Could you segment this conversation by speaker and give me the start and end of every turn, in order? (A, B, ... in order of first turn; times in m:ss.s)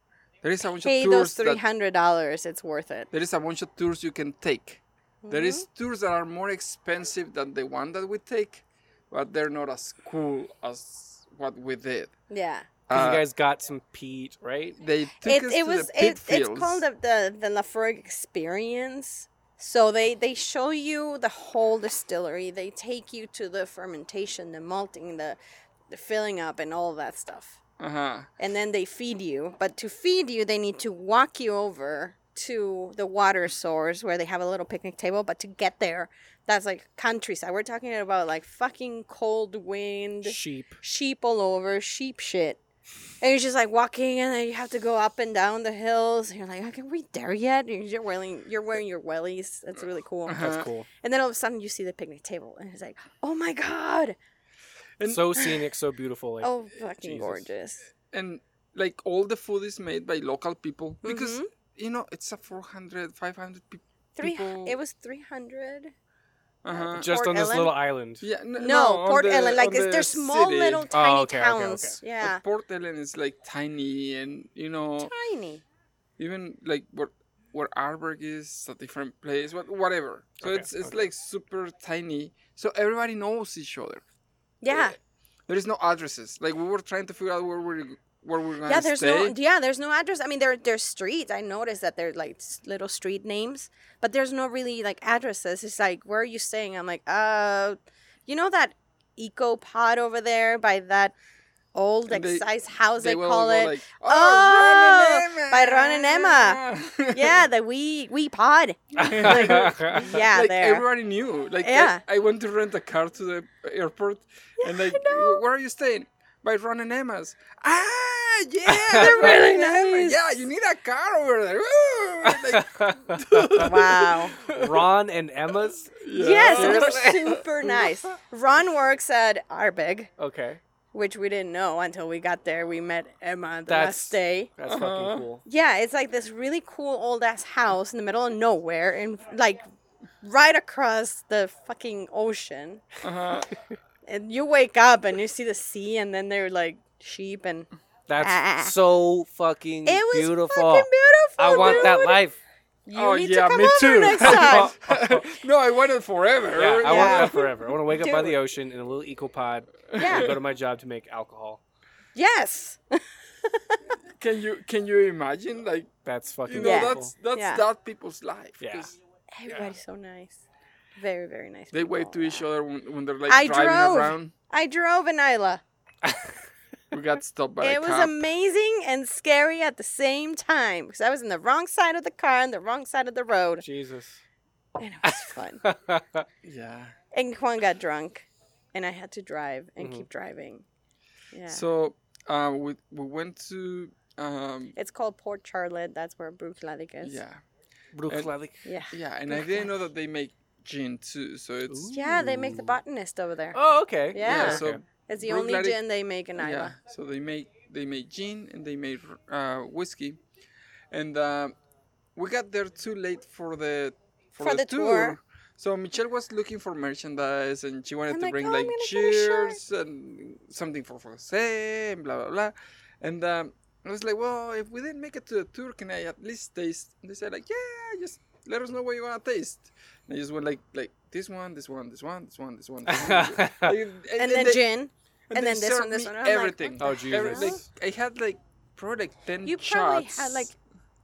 0:00.4-0:01.6 A
0:00.8-0:03.1 B
0:03.1-0:12.1 A
0:05.2-0:05.6 B
0:12.3-0:12.7 B
0:12.9-0:13.2 A
0:12.9-0:14.8 C
0:14.8-0:16.8 A
0:15.2-0:25.4 B
0:25.9-0:27.6 B
0:27.8-0:28.3 A
0:28.4-0:42.6 B
0:40.2-0:40.8 C
0:43.2-0:54.2 B
0:50.3-0:50.7 A
0:50.4-0:50.9 C
0:55.0-0:55.4 A
0:55.1-0:57.5 C
0:56.4-0:57.9 B
0:58.0-1:04.8 A
1:01.0-1:01.5 B
1:04.2-1:05.9 B
1:06.6-1:07.1 A
1:06.7-1:07.7 B
1:07.0-1:08.2 C
1:08.2-1:10.9 A
1:08.6-1:12.4 B
1:10.9-1:12.0 C
1:12.2-1:15.1 A
1:15.0-1:15.6 B
1:16.2-1:24.0 A
1:20.4-1:21.1 C
1:24.6-1:25.0 B
1:24.7-1:25.0 A
1:25.5-1:29.4 A
1:28.7-1:41.1 B
1:41.8-1:50.9 B
1:42.1-1:47.4 A
1:49.0-1:50.0 C
1:49.1-2:04.9 A
1:51.6-1:52.0 B
1:54.6-1:55.4 B
1:58.7-1:59.2 C
1:58.9-2:00.4 B
2:02.2-2:03.8 C
2:03.5-2:04.4 B
2:04.5-2:05.9 C
2:05.9-2:08.0 A
2:06.1-2:10.1 B
2:06.5-2:07.3 C
2:10.2-2:10.6 C
2:10.9-2:14.5 B
2:13.7-2:15.4 C
2:14.7-2:15.2 A
2:15.4-2:19.6 B
2:20.2-2:22.8 B
2:23.0-2:23.5 A
2:24.1-2:27.7 B
2:28.1-2:32.4 C
2:28.2-2:28.8 B
2:29.9-2:32.2 B
2:31.5-2:31.9 A
2:32.9-2:34.7 B
2:33.0-2:37.7 A
2:34.2-2:35.3 C
2:36.5-2:41.6 C
2:36.8-2:38.4 B
2:39.9-2:40.3 A
2:40.0-2:40.4 B
2:42.2-2:43.9 B
2:44.0-2:45.9 A
2:46.0-2:47.1 C
2:46.5-2:49.0 A
2:46.6-2:47.6 B
2:48.6-2:48.9 C
2:49.3-2:50.4 B
2:49.5-2:49.8 C
2:51.0-2:52.5 B
2:51.7-2:54.3 A
2:53.3-2:55.6 B
2:56.0-2:56.4 C
2:56.9-2:58.2 A
2:57.6-3:03.6 B
3:03.6-3:04.2 C
3:04.8-3:05.6 B
3:05.0-3:06.3 C
3:06.4-3:07.0 A
3:07.1-3:10.6 B
3:09.8-3:10.1 C
3:11.3-3:11.6 B
3:11.5-3:14.8 A
3:14.8-3:17.2 B
3:17.0-3:17.4 A
3:17.9-3:18.7 C
3:18.1-3:18.3 A
3:18.6-3:19.7 B
3:18.9-3:21.9 A
3:21.7-3:22.8 C
3:21.9-3:26.7 B
3:23.5-3:24.8 C
3:24.2-3:25.8 A
3:26.4-3:30.2 A
3:30.9-3:31.6 A
3:32.2-3:54.6 A
3:34.4-3:35.2 B
3:38.1-3:39.6 B
3:52.9-3:53.8 C
3:54.2-3:57.6 B
3:55.3-4:00.5 A
3:56.8-3:57.6 C
3:59.4-4:00.6 B